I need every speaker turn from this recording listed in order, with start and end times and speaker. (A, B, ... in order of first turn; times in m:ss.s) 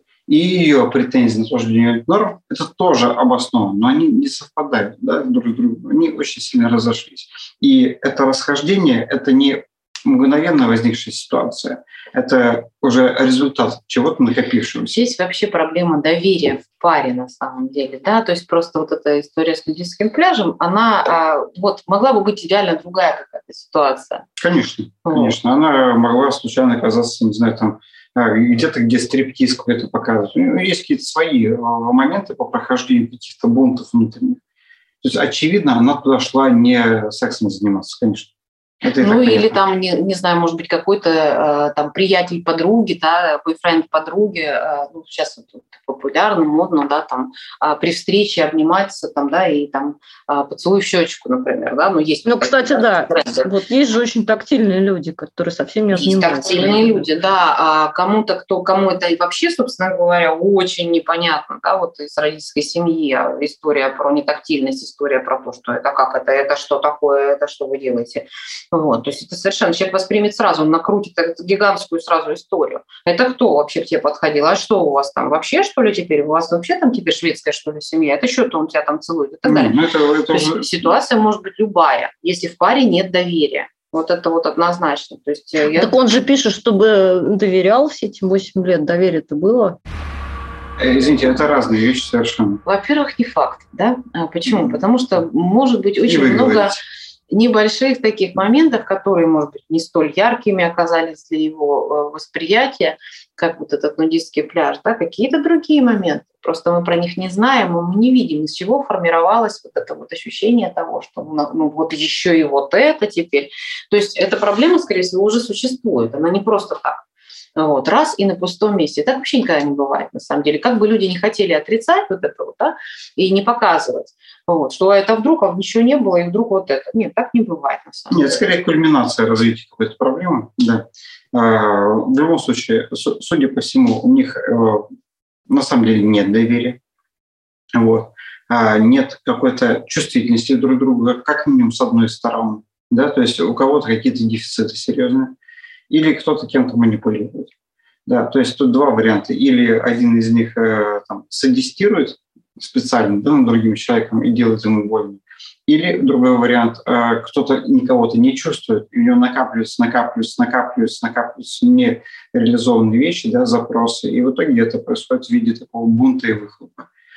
0:00.3-0:14.9 A
0:14.9-0:24.2 B
0:24.4-0:34.4 A
0:25.0-0:25.4 B
0:35.0-0:38.3 A
0:38.8-0:39.6 A
0:39.0-0:53.5 B
0:52.2-0:57.0 C
0:55.9-1:19.8 B
1:19.4-1:20.9 A
1:20.3-1:25.9 B
1:25.8-1:29.8 C
1:30.8-1:32.6 A
1:32.6-1:36.8 B
1:36.0-1:36.8 A
1:37.3-1:57.0 B
1:57.6-2:08.4 B
2:08.1-2:14.9 A
2:15.5-2:16.8 A
2:17.7-2:25.4 A
2:25.9-2:27.5 A
2:28.1-2:46.9 A